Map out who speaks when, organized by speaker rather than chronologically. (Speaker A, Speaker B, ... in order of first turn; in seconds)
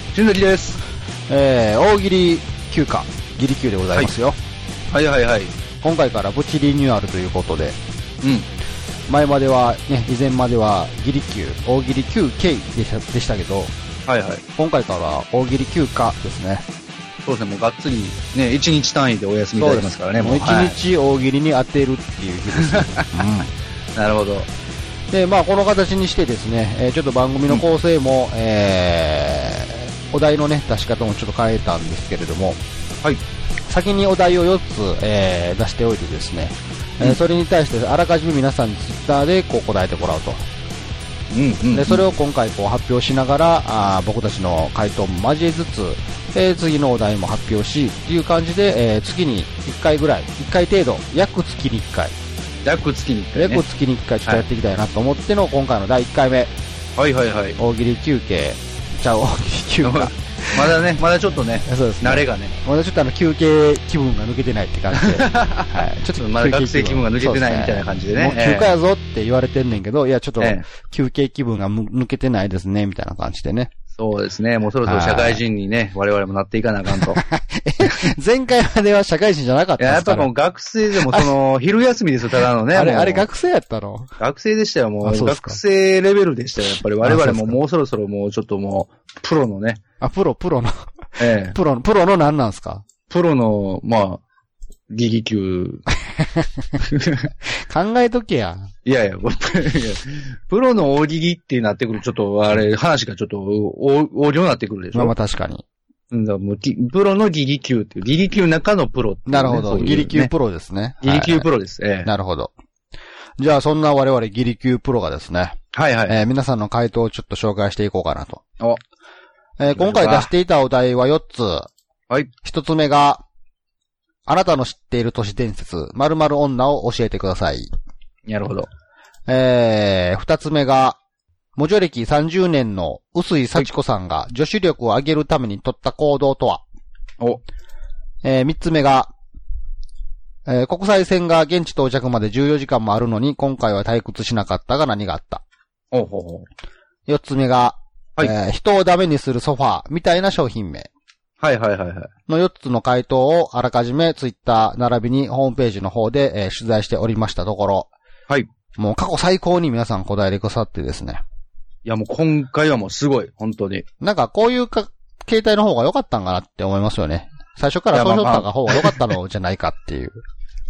Speaker A: 0.1-0.8, 4.9-5.5, 14.1-14.4, 17.2-20.8, 22.6-23.2, 23.9-24.5, 41.3-42.1, 52.6-53.6, 57.0-57.6, 59.8-62.6, 64.9-68.7, 70.4-70.6, 74.0-77.2, 79.8-83.2, 84.2-89.8, 91.2-91.6, 93.1-94.2, 94.9-95.8, 96.8-97.3, 98.8-105.1, 106.1-110.3, 111.0-112.1, 115.7-116.2, 119.7-120.3, 128.3-128.7, 145.9-146.4, 151.4-152.1, 161.8-163.8, 167.9-169.1
Speaker B: 1.3-4.4, 5.8-7.8, 9.1-13.7, 14.6-16.6, 19.6-23.5, 25.1-32.6, 33.7-40.4, 41.7-52.1, 53.4-56.5, 57.6-60.8, 61.6-73.7, 74.8-75.4, 77.0-80.3, 81.0-81.3, 82.4-84.1, 85.0-85.6, 87.0-87.6, 90.0-92.8, 96.1-96.7, 97.5-98.7, 104.9-105.6, 109.3-111.5, 112.0-112.5, 113.4-115.6, 116.1-118.4, 119.6-121.7, 122.4-123.2, 124.2-127.7, 129.3-131.0, 131.6-136.6, 138.2-139.1, 140.4-145.4, 147.1-150.9, 152.3-157.9, 158.8-161.2, 164.0-170.2